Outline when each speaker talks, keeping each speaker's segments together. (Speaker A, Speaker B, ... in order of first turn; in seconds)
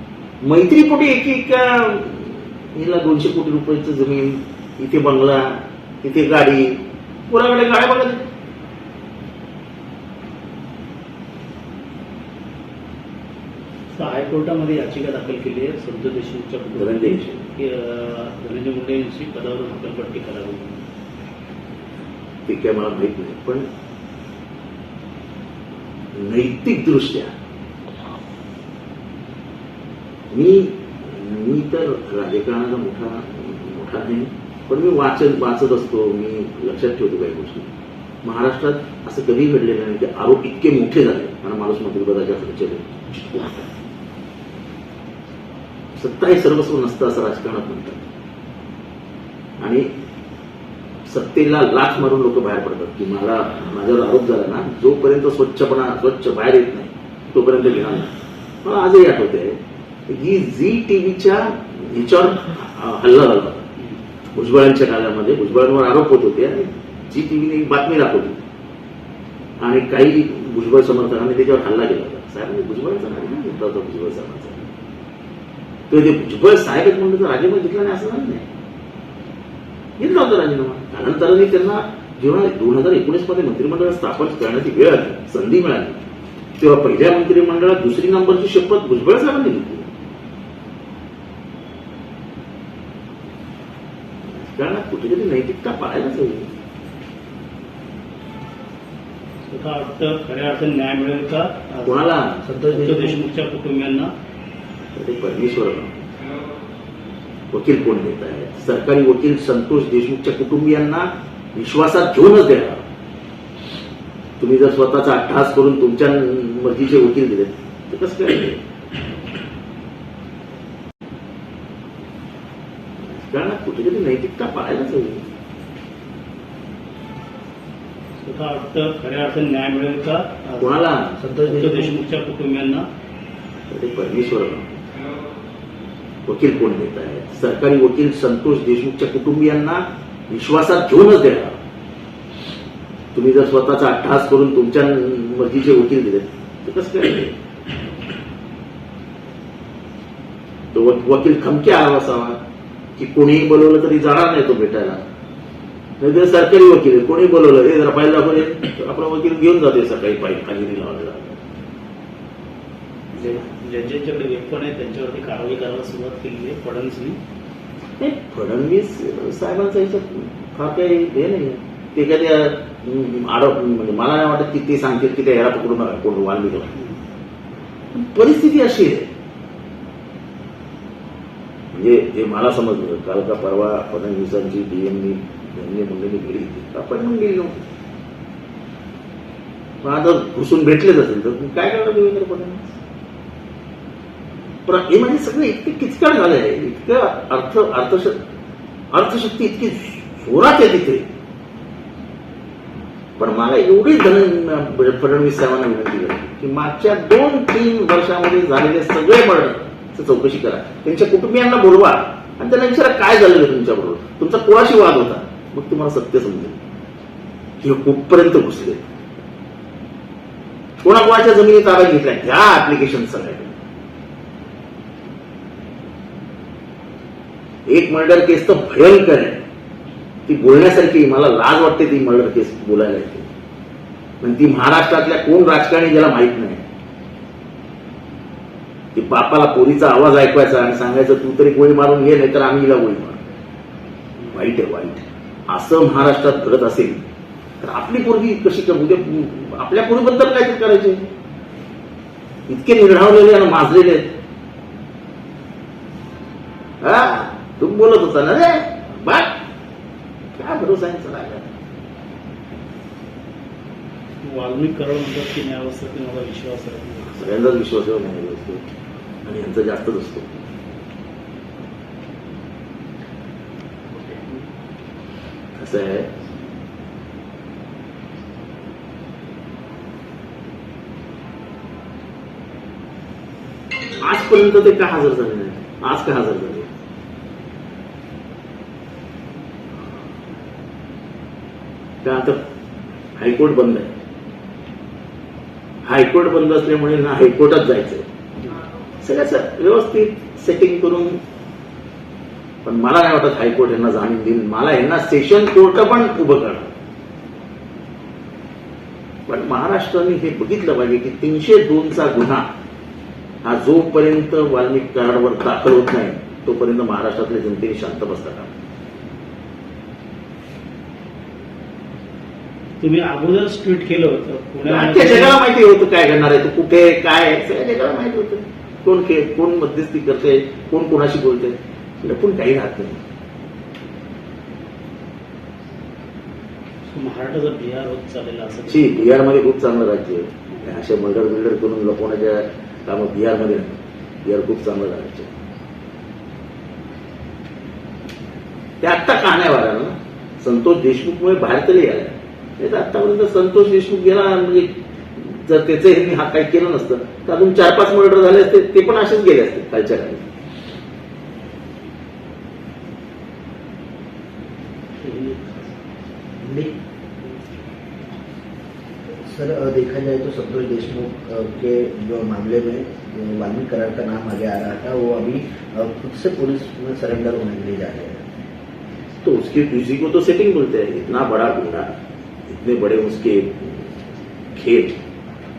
Speaker A: 0.4-8.2, 16.7-17.5, 22.5-23.7, 26.1-27.3, 30.3-37.7, 38.2-43.7, 45.9-48.1, 49.6-49.9, 51.1-59.6, 60.1-63.7, 64.3-68.4, 69.6-74.7, 75.9-78.5, 80.0-86.0, 86.6-89.9, 94.3-96.5, 101.8-102.4, 104.9-106.1, 107.5-112.8, 114.4-118.6, 123.0-125.2, 130.6-131.2, 133.7-134.8, 136.2-141.6, 143.1-147.3, 150.7-152.4, 153.0-155.0, 156.0-161.4, 168.0-176.7, 177.9-179.1, 181.7-187.6, 189.8-192.7, 194.7-198.2, 198.9-201.1, 203.2-216.6, 217.6-218.9, 220.8-223.6, 227.7-229.4, 230.3-233.3, 234.2-236.6, 238.9-243.2, 244.3-247.0, 247.6-251.1, 252.5-254.1, 256.8-259.4, 260.4-261.5, 267.1-268.6, 269.2-270.4, 275.5-276.1, 284.0-286.7, 292.0-292.4, 293.1-293.9, 295.8-298.1, 299.0-301.2, 302.6-306.7, 309.3-312.4, 313.4-318.5, 324.6-333.0, 338.7-345.3, 348.8-360.2, 379.2-381.9, 382.5-383.9, 384.5-385.0
Speaker B: 13.9-20.8, 99.5-102.0, 102.7-104.1, 128.2-130.8, 131.4-132.8, 163.1-167.2, 264.2-267.1, 322.8-325.4, 336.9-339.2, 365.0-365.6
Speaker C: 102.4-103.2, 131.2-131.9, 366.4-366.7, 369.2-378.2